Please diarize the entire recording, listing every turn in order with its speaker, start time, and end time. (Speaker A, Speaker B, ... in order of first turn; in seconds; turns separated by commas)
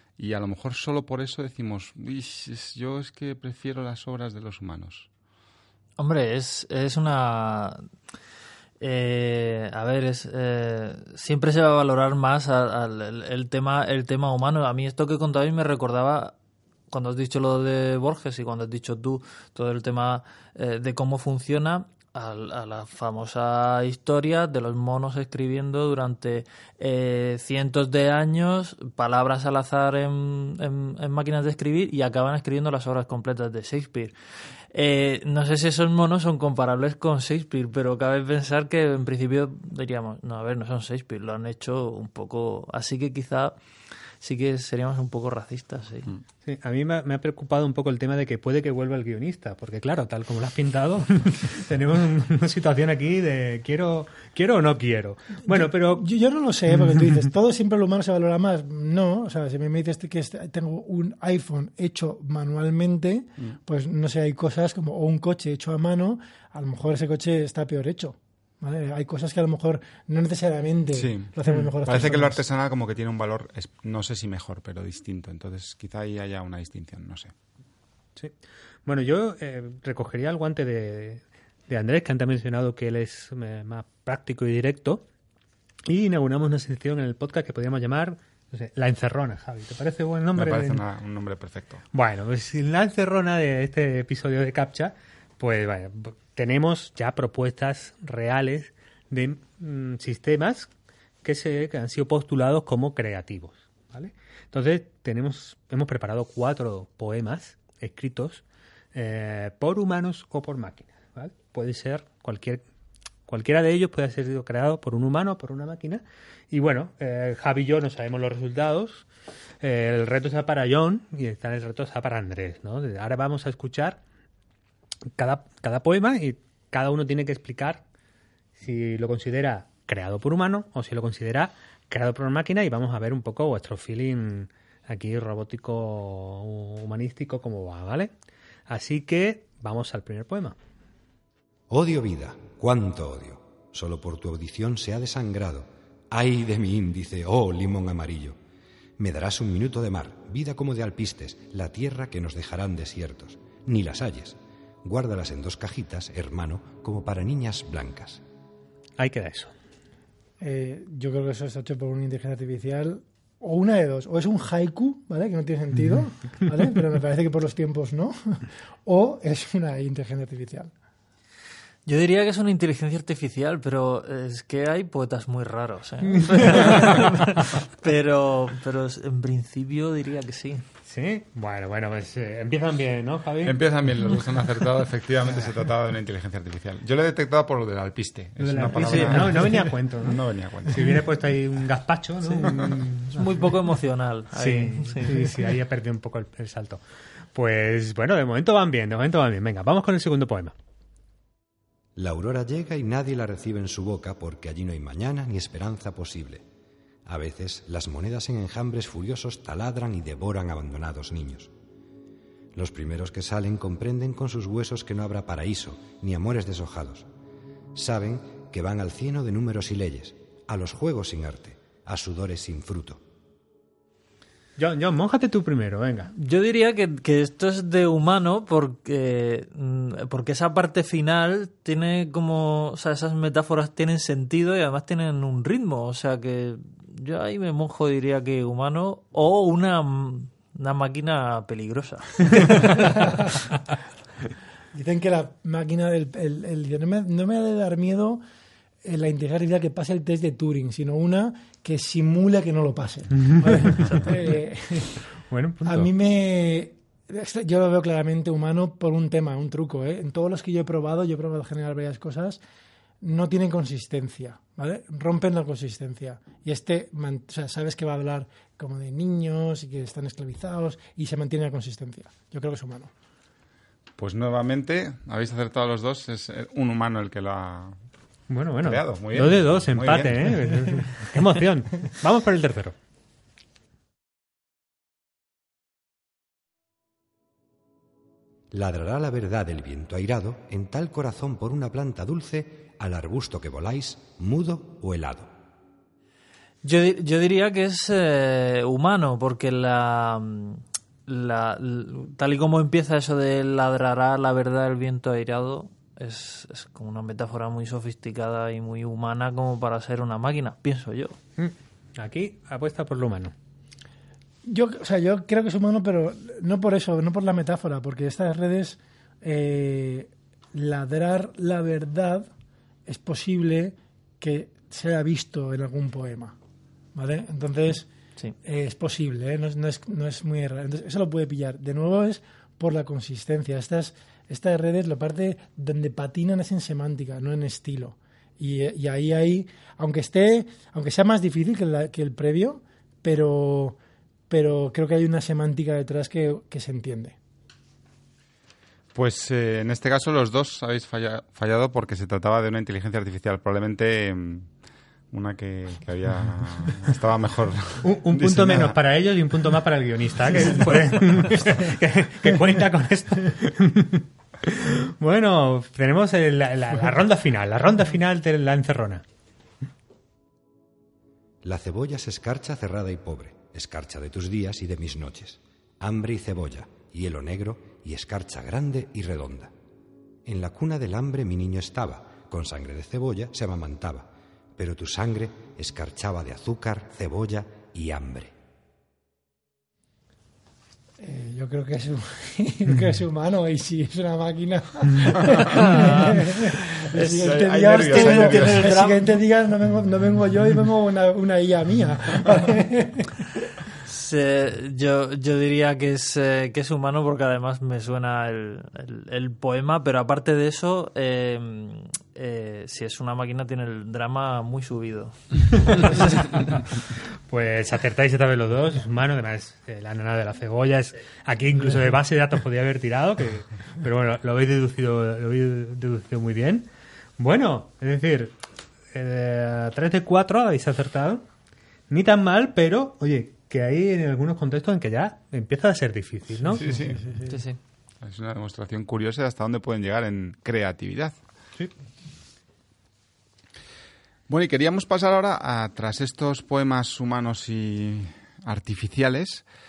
Speaker A: 0.2-5.1, Speaker B: 6.0-7.8, Speaker B: 8.8-16.3, Speaker B: 16.9-34.1, Speaker B: 34.7-43.6, Speaker B: 44.2-46.1, Speaker C: 46.4-56.0, Speaker D: 55.4-72.4, Speaker A: 70.9-77.3, Speaker C: 78.8-85.0, Speaker C: 85.9-90.8, Speaker A: 90.3-91.8, Speaker C: 91.9-100.7, Speaker C: 101.2-108.4, Speaker C: 108.9-112.6, Speaker C: 113.3-119.1, Speaker C: 119.6-124.0, Speaker C: 125.2-127.8, Speaker C: 128.6-138.1, Speaker C: 138.7-140.6, Speaker E: 141.7-148.4, Speaker E: 149.0-158.2, Speaker C: 159.0-159.5, Speaker D: 160.4-170.7, Speaker B: 171.8-180.6, Speaker C: 176.1-177.2, Speaker C: 180.8-183.6, Speaker A: 183.4-191.0, Speaker C: 188.4-193.3, Speaker B: 188.8-189.5, Speaker B: 193.1-195.3, Speaker C: 194.3-196.8, Speaker C: 197.3-200.5, Speaker E: 201.9-206.4, Speaker E: 207.1-211.5, Speaker E: 212.5-217.1, Speaker E: 217.7-223.0, Speaker C: 224.6-226.1, Speaker B: 226.2-243.3, Speaker D: 242.9-243.3, Speaker D: 244.7-248.2, Speaker D: 248.8-255.0, Speaker C: 253.2-254.1, Speaker C: 255.1-255.9, Speaker D: 255.6-262.4, Speaker D: 263.0-272.9, Speaker A: 274.0-277.8, Speaker C: 278.3-282.8, Speaker A: 278.6-280.4, Speaker E: 288.5-295.3, Speaker B: 296.6-311.2, Speaker C: 311.4-313.3, Speaker D: 314.4-322.3, Speaker D: 322.9-326.4, Speaker D: 326.9-327.9, Speaker D: 328.4-343.8, Speaker D: 344.3-347.2, Speaker A: 348.9-354.5, Speaker A: 355.1-358.8, Speaker C: 357.8-369.0, Speaker E: 371.4-379.5, Speaker E: 380.2-388.3, Speaker D: 391.0-403.2, Speaker B: 395.5-396.3, Speaker B: 396.9-399.0, Speaker A: 397.0-398.9, Speaker B: 403.8-416.6, Speaker C: 415.8-426.7, Speaker C: 427.2-428.4, Speaker C: 428.9-431.2, Speaker C: 431.9-436.7, Speaker D: 436.5-437.4, Speaker A: 436.6-437.0, Speaker B: 437.3-437.6, Speaker A: 438.0-441.1, Speaker A: 444.3-449.4